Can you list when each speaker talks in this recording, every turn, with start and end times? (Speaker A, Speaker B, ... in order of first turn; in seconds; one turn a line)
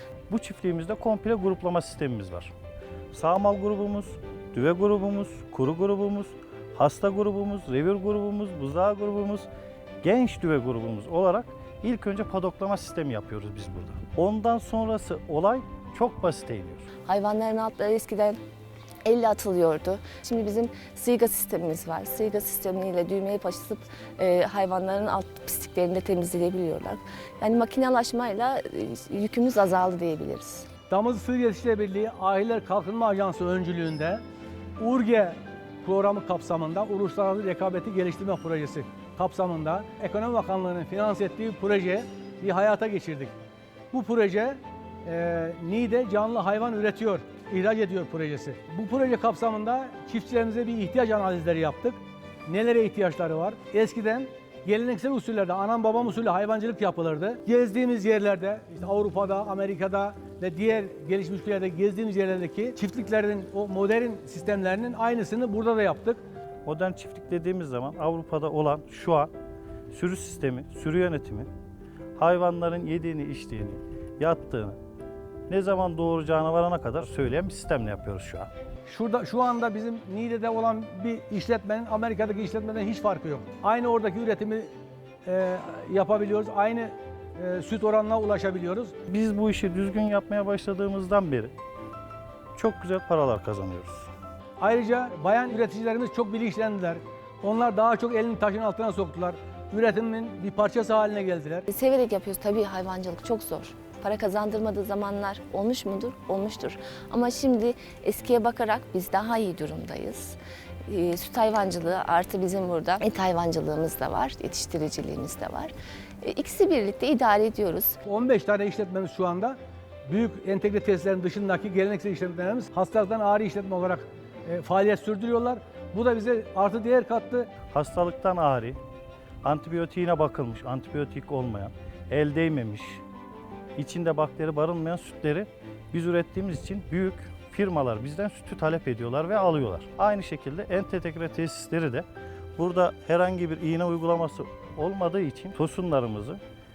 Speaker A: 0.3-2.5
Speaker A: 3.1-9.5
Speaker A: 10.0-16.9
Speaker B: 17.1-18.4
Speaker B: 19.0-30.7
Speaker C: 30.9-34.2
Speaker C: 34.8-43.3
Speaker C: 43.9-66.2
Speaker A: 66.6-69.3
Speaker A: 69.9-71.5
Speaker A: 72.2-74.8
Speaker A: 75.5-78.5
Speaker C: 78.9-84.7
Speaker C: 85.2-88.9
Speaker A: 89.1-91.5
Speaker A: 92.5-94.1
Speaker C: 94.6-101.7
Speaker B: 101.7-110.4
Speaker B: 110.9-118.0
Speaker C: 118.0-119.5
Speaker C: 120.1-127.5
Speaker A: 127.7-128.8
Speaker A: 129.4-133.0
Speaker A: 133.8-142.1
Speaker A: 142.6-146.4